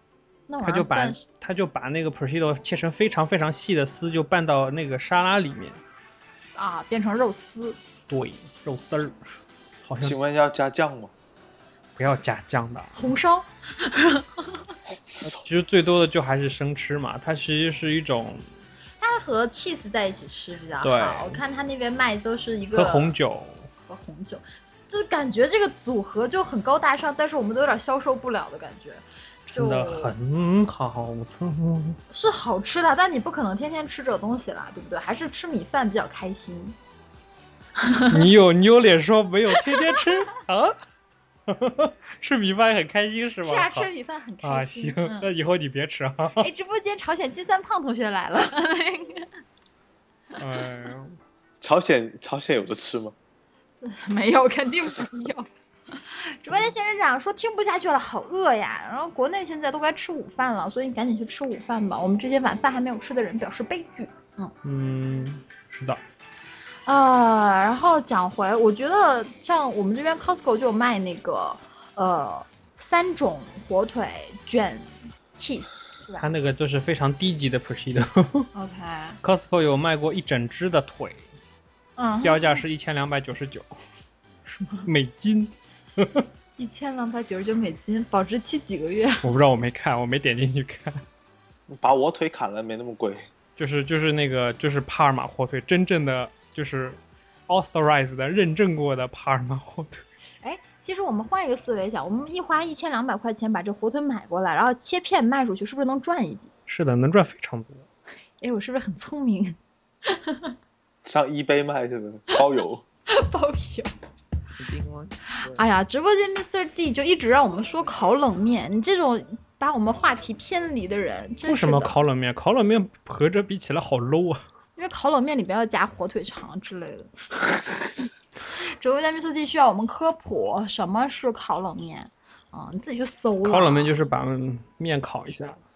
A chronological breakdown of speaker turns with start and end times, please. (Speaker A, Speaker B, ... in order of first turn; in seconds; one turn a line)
Speaker A: 0.5-1.2
Speaker B: 0.6-5.8
Speaker A: 6.5-7.8
Speaker B: 8.1-10.2
Speaker C: 10.0-11.1
Speaker B: 12.0-12.9
Speaker A: 12.9-14.6
Speaker B: 15.2-18.4
Speaker A: 19.0-23.1
Speaker B: 20.8-21.4
Speaker B: 22.7-23.7
Speaker A: 23.9-30.1
Speaker B: 29.5-32.0
Speaker A: 32.1-36.8
Speaker A: 37.8-38.3
Speaker B: 38.1-40.8
Speaker A: 39.5-40.2
Speaker B: 41.5-43.9
Speaker A: 43.4-45.3
Speaker B: 44.4-46.5
Speaker A: 46.4-49.3
Speaker B: 50.4-51.2
Speaker C: 51.6-53.1
Speaker A: 53.8-64.5
Speaker B: 64.6-66.0
Speaker A: 66.8-76.3
Speaker B: 76.2-78.5
Speaker A: 78.5-79.2
Speaker B: 79.2-81.2
Speaker A: 82.0-82.6
Speaker B: 82.2-83.7
Speaker A: 84.5-84.9
Speaker B: 84.8-86.3
Speaker A: 86.6-89.2
Speaker B: 89.2-91.0
Speaker C: 91.7-93.3
Speaker B: 93.6-100.0
Speaker A: 100.4-106.5
Speaker B: 106.7-107.9
Speaker A: 108.4-110.5
Speaker C: 111.0-112.8
Speaker A: 113.1-113.9
Speaker A: 115.3-121.9
Speaker B: 121.4-124.4
Speaker A: 124.8-127.2
Speaker A: 128.5-134.0
Speaker B: 133.4-135.6